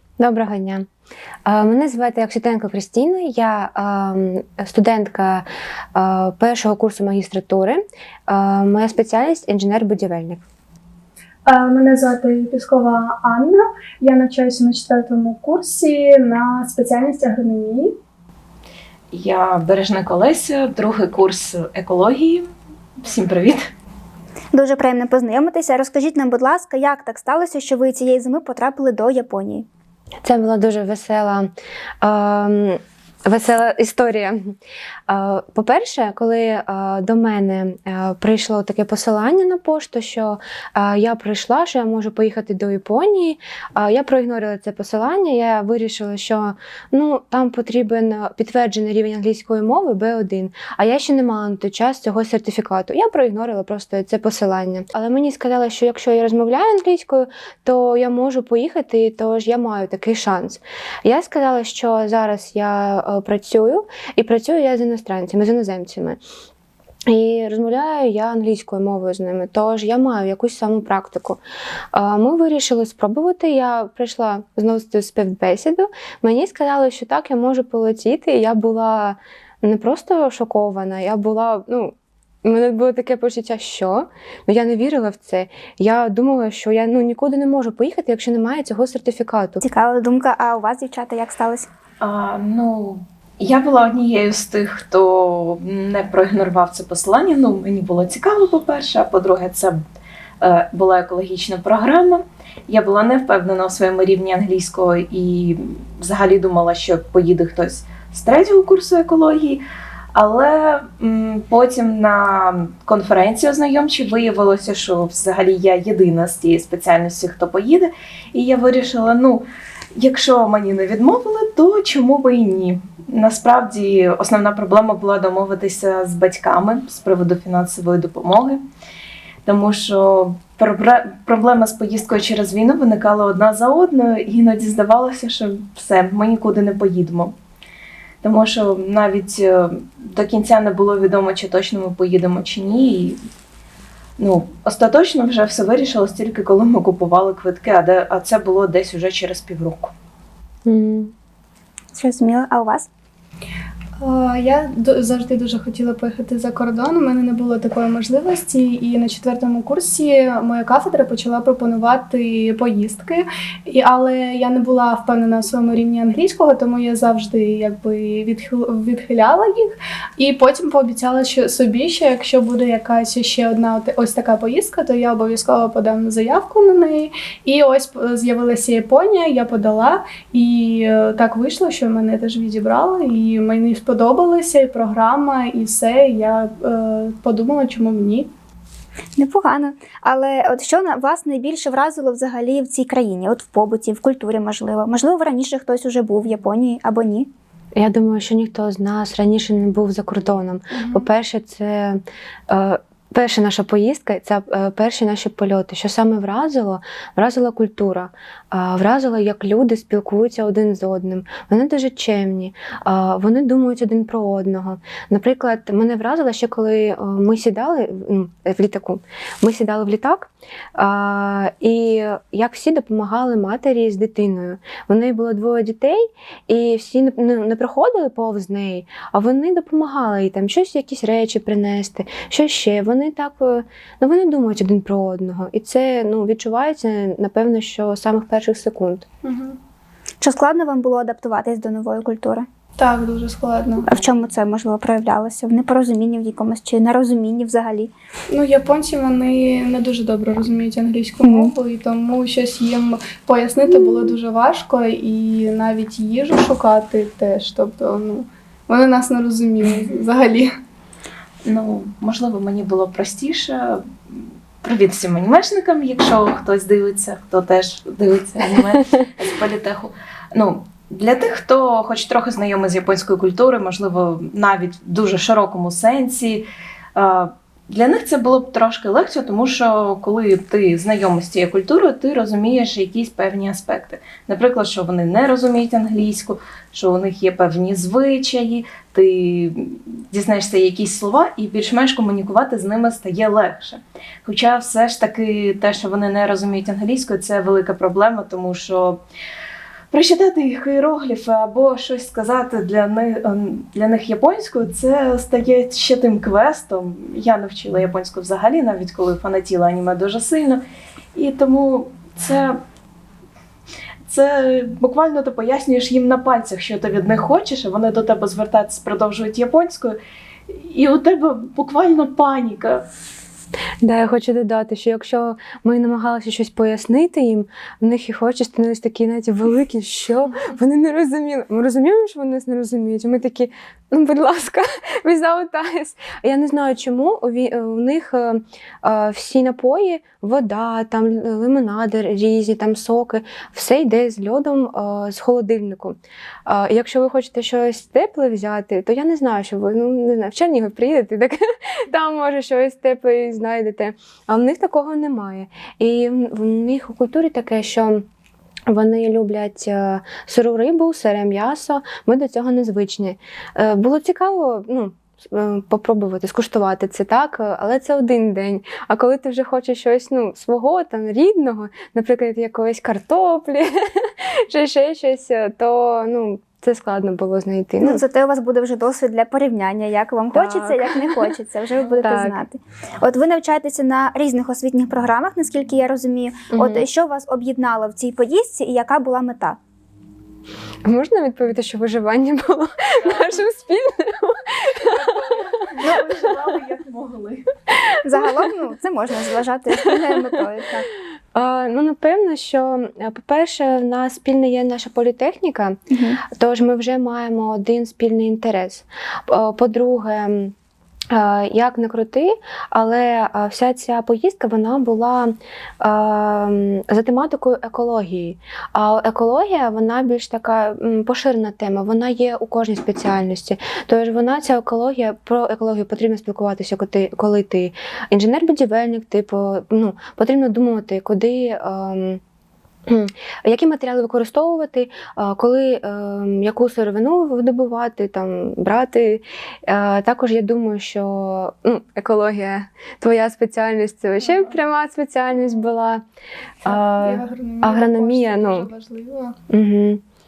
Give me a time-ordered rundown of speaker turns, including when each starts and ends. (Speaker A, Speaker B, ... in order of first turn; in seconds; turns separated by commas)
Speaker A: 0.2-0.9, Speaker A: 1.4-10.4, Speaker B: 11.5-17.9, Speaker C: 19.1-23.6, Speaker D: 24.5-29.7, Speaker A: 30.2-31.5, Speaker A: 32.0-34.6, Speaker A: 35.1-66.2, Speaker A: 67.1-71.4, Speaker A: 71.9-89.6, Speaker D: 89.6-91.7, Speaker C: 92.0-99.8, Speaker C: 100.4-109.6, Speaker C: 110.2-128.6, Speaker C: 129.5-137.3, Speaker C: 138.2-143.2, Speaker C: 144.2-149.9, Speaker A: 150.7-151.1, Speaker D: 151.9-152.9, Speaker B: 154.0-188.3, Speaker D: 189.2-197.3, Speaker A: 197.8-239.1, Speaker B: 239.2-239.6, Speaker D: 240.2-242.5, Speaker B: 242.8-243.9, Speaker D: 243.9-247.9, Speaker B: 248.3-260.5, Speaker D: 251.2-251.5, Speaker C: 261.5-299.0, Speaker C: 299.9-310.6, Speaker C: 311.1-312.6, Speaker C: 314.1-320.0, Speaker C: 320.5-322.9, Speaker A: 323.8-358.1, Speaker A: 358.7-378.0, Speaker D: 377.8-389.6, Speaker A: 380.3-381.3, Speaker A: 382.0-382.4, Speaker A: 386.5-386.8, Speaker A: 390.9-396.4, Speaker C: 393.0-393.5, Speaker C: 394.8-397.5, Speaker A: 397.9-398.5, Speaker D: 398.0-400.9, Speaker A: 399.8-400.3, Speaker A: 401.3-410.5, Speaker D: 405.9-406.2, Speaker A: 411.1-432.2, Speaker A: 432.9-446.0, Speaker A: 446.6-448.7, Speaker B: 446.6-449.4, Speaker A: 449.5-450.0